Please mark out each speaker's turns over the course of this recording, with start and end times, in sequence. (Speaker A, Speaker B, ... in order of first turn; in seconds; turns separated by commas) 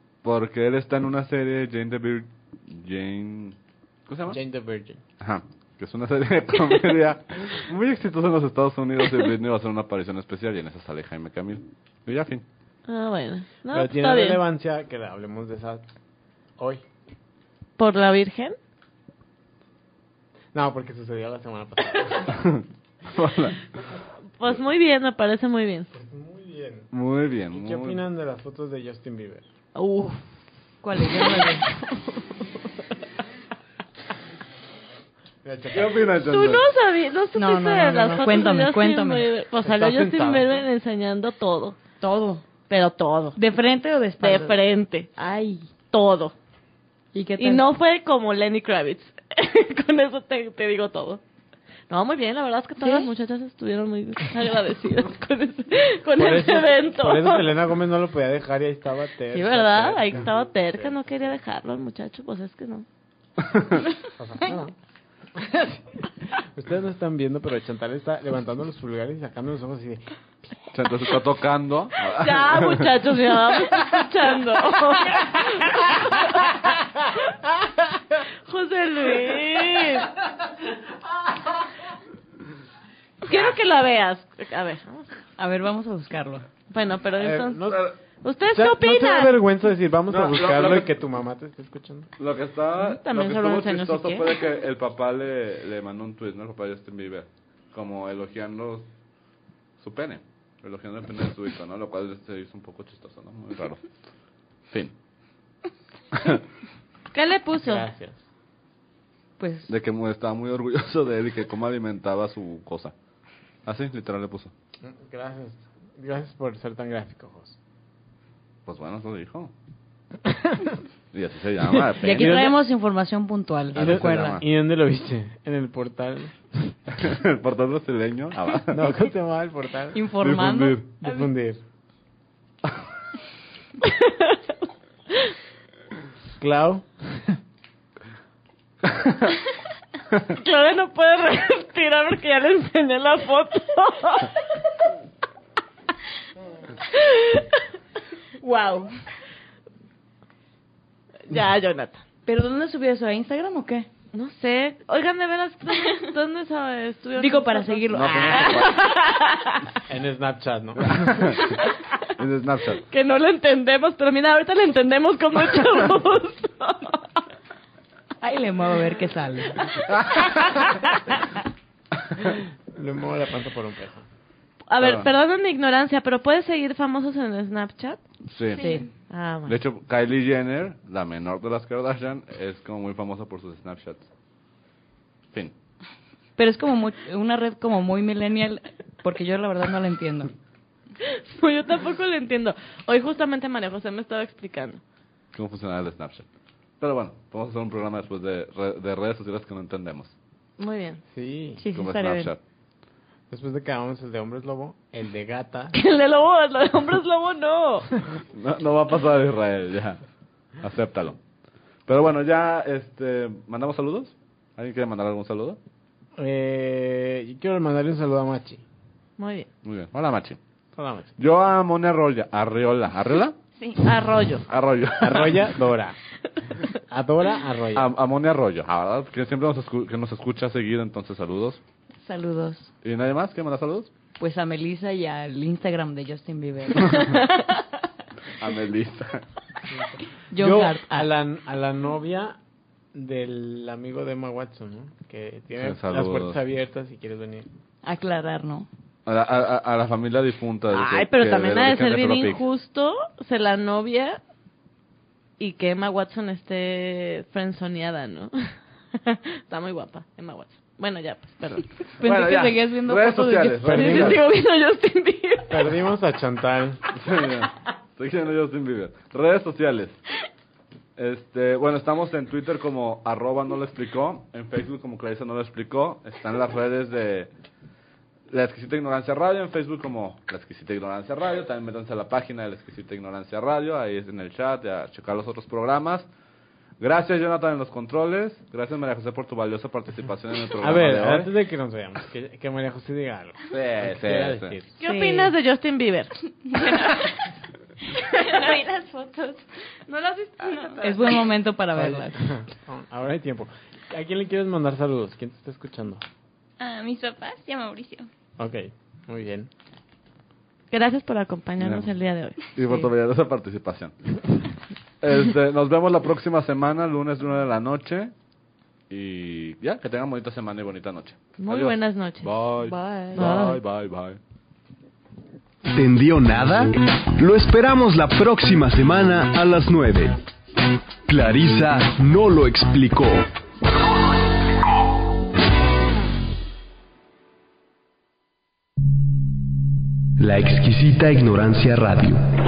Speaker A: 0.2-4.4, Speaker B: 4.3-5.0, Speaker A: 5.2-12.4, Speaker C: 12.8-14.4, Speaker B: 13.7-15.8, Speaker B: 16.6-16.8, Speaker C: 17.8-18.6, Speaker B: 20.5-22.6, Speaker A: 23.1-23.6, Speaker C: 24.4-25.9, Speaker B: 25.9-26.9, Speaker A: 26.9-28.0, Speaker B: 27.5-29.4, Speaker C: 29.7-30.2, Speaker D: 30.8-31.6, Speaker C: 31.2-31.5, Speaker B: 35.4-36.1, Speaker A: 35.7-36.7, Speaker C: 36.2-41.8, Speaker D: 37.4-39.2, Speaker B: 39.6-40.6, Speaker D: 42.0-42.4, Speaker C: 42.7-43.4, Speaker D: 43.4-44.6, Speaker C: 44.2-45.1, Speaker D: 45.1-45.7, Speaker C: 45.9-46.3, Speaker D: 47.1-47.6, Speaker C: 47.4-51.2, Speaker C: 51.9-57.5, Speaker D: 52.8-53.1, Speaker B: 56.1-60.3, Speaker C: 59.3-62.9, Speaker A: 63.4-63.8, Speaker B: 64.2-64.7, Speaker B: 65.3-65.8, Speaker B: 66.3-70.0, Speaker A: 70.7-73.1, Speaker C: 72.0-77.2, Speaker C: 78.2-80.1, Speaker C: 83.2-85.1, Speaker D: 85.4-86.5, Speaker C: 86.7-89.3, Speaker B: 87.2-87.9, Speaker B: 88.5-92.1, Speaker A: 90.1-90.9, Speaker A: 92.2-98.9, Speaker C: 92.8-94.3, Speaker A: 99.8-103.8, Speaker A: 104.7-104.9, Speaker A: 106.1-106.4, Speaker C: 107.1-107.9, Speaker B: 107.6-108.2, Speaker D: 109.4-109.7, Speaker A: 109.7-112.9, Speaker A: 113.6-114.5, Speaker B: 114.8-117.5, Speaker A: 118.7-119.5, Speaker A: 121.1-122.6, Speaker D: 122.0-124.4, Speaker A: 123.7-124.4, Speaker B: 123.7-126.7, Speaker A: 127.0-128.9, Speaker B: 128.7-130.1, Speaker D: 129.9-131.3, Speaker A: 130.2-130.8, Speaker B: 131.0-131.6, Speaker C: 133.8-134.4, Speaker B: 136.4-137.4, Speaker A: 138.8-139.3, Speaker C: 140.3-144.3, Speaker C: 146.9-147.6, Speaker D: 148.4-149.0, Speaker C: 151.3-152.0, Speaker D: 152.2-153.9, Speaker C: 154.1-159.6, Speaker D: 157.2-158.8, Speaker A: 157.9-158.9, Speaker B: 159.9-161.5, Speaker A: 160.8-161.6, Speaker A: 162.2-162.8, Speaker C: 162.9-167.1, Speaker D: 168.2-169.8, Speaker A: 169.9-170.7, Speaker B: 172.3-174.0, Speaker C: 174.7-178.0, Speaker A: 174.8-175.1, Speaker A: 178.3-178.7, Speaker D: 178.6-178.9, Speaker C: 179.1-179.6, Speaker A: 179.4-184.1, Speaker D: 186.4-190.3, Speaker C: 191.0-194.8, Speaker A: 195.3-196.2, Speaker A: 196.8-200.1, Speaker C: 200.6-201.0, Speaker B: 201.1-201.6, Speaker D: 201.6-202.3, Speaker A: 201.7-202.4, Speaker B: 203.3-205.7, Speaker C: 205.7-207.9, Speaker A: 208.3-210.0, Speaker A: 210.6-211.2, Speaker A: 211.9-215.6, Speaker B: 216.2-218.6, Speaker C: 219.2-219.5, Speaker A: 219.6-220.4, Speaker B: 220.8-221.1, Speaker A: 221.2-223.4, Speaker C: 223.8-224.5, Speaker A: 224.4-225.6, Speaker B: 225.0-226.0, Speaker B: 226.7-227.9, Speaker A: 227.7-231.6, Speaker D: 232.0-232.7, Speaker A: 232.8-233.9, Speaker D: 234.2-237.4, Speaker C: 236.9-237.4, Speaker A: 238.3-239.2, Speaker B: 239.7-242.4, Speaker D: 240.3-241.1, Speaker B: 242.9-247.5, Speaker A: 245.6-246.4, Speaker D: 247.8-248.7, Speaker A: 249.1-252.4, Speaker C: 250.7-254.2, Speaker C: 255.4-261.7, Speaker D: 262.0-264.1, Speaker A: 262.0-264.3, Speaker B: 263.6-264.2, Speaker C: 263.7-265.7, Speaker B: 265.5-266.8, Speaker A: 266.9-270.0, Speaker A: 271.0-277.3, Speaker A: 278.3-286.1, Speaker A: 286.8-291.3, Speaker B: 290.6-294.8, Speaker A: 293.5-294.6, Speaker C: 294.8-297.1, Speaker D: 294.9-295.2, Speaker C: 298.0-298.6, Speaker E: 298.3-299.4, Speaker C: 299.9-301.2, Speaker E: 300.4-300.8, Speaker D: 300.8-302.2, Speaker B: 301.7-306.0, Speaker E: 306.6-308.1, Speaker B: 308.4-309.5, Speaker C: 310.7-312.8, Speaker A: 311.6-311.9, Speaker A: 312.5-313.9, Speaker A: 315.0-318.1, Speaker A: 318.9-324.2, Speaker C: 321.4-323.6, Speaker F: 325.7-330.2, Speaker F: 331.1-333.3, Speaker F: 340.2-342.2